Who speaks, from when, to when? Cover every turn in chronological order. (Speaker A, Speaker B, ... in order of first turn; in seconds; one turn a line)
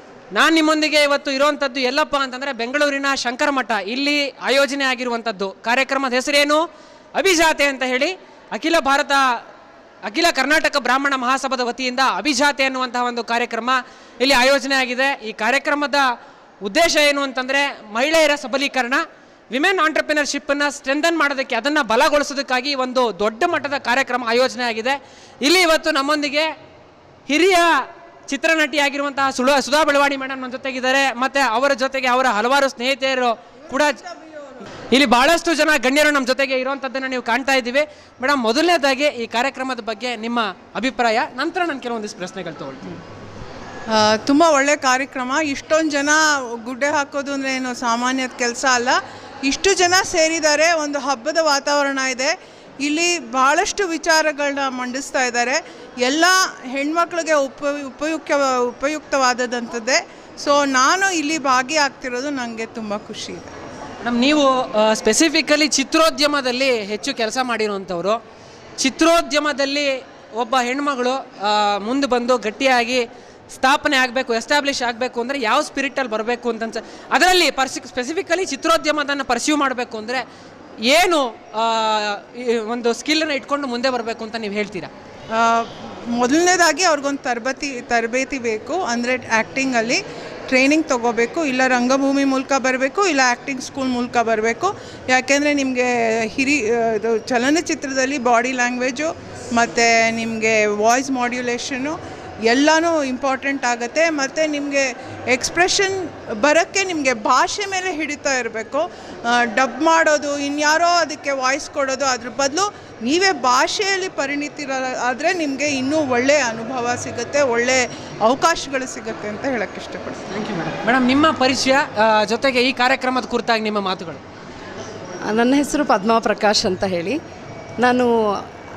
Speaker A: 0.3-6.6
Speaker A: 7.2-9.4
Speaker A: 10.1-16.1
Speaker A: 16.6-26.5
Speaker A: 27.3-27.7
Speaker A: 28.3-34.0
Speaker A: 34.9-43.0
Speaker B: 43.9-63.5
Speaker A: 64.0-68.2
Speaker A: 68.8-80.2
Speaker A: 80.8-84.9
Speaker B: 85.3-120.2
Speaker A: 120.3-124.2
Speaker C: 125.3-127.2
Speaker C: 127.8-128.1